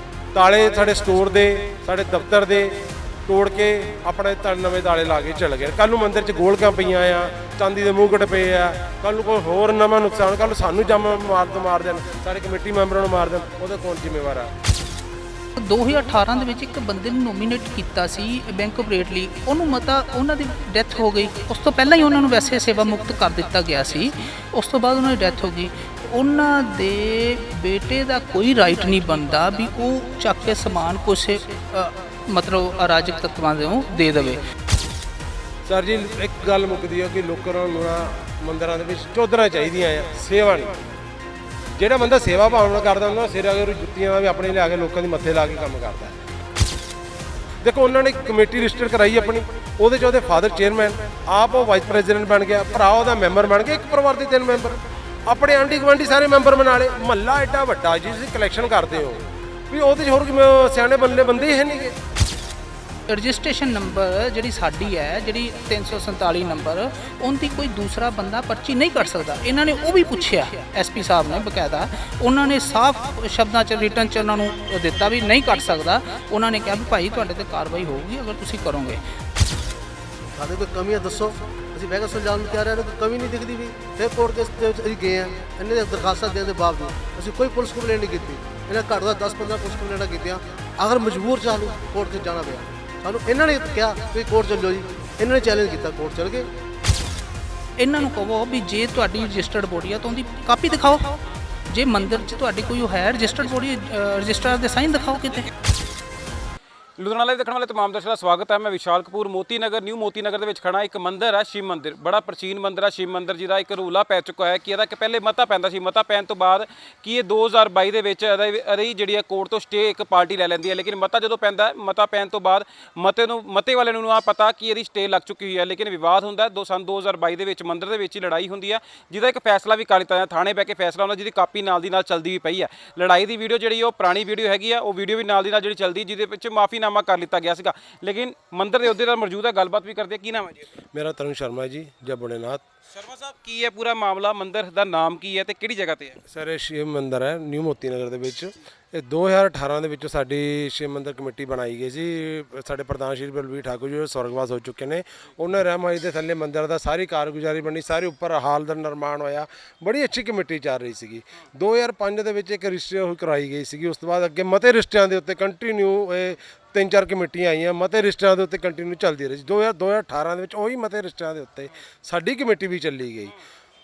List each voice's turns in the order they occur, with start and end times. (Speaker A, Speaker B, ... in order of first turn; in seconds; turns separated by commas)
Speaker A: 0.3-14.5, Speaker B: 15.6-34.5, Speaker A: 35.7-40.7, Speaker A: 41.8-46.2, Speaker A: 47.6-61.9, Speaker B: 63.1-79.0, Speaker C: 80.3-96.5, Speaker B: 97.8-105.5, Speaker D: 105.0-105.5, Speaker D: 107.0-140.7, Speaker A: 140.9-142.6, Speaker D: 142.9-146.2, Speaker A: 146.3-173.3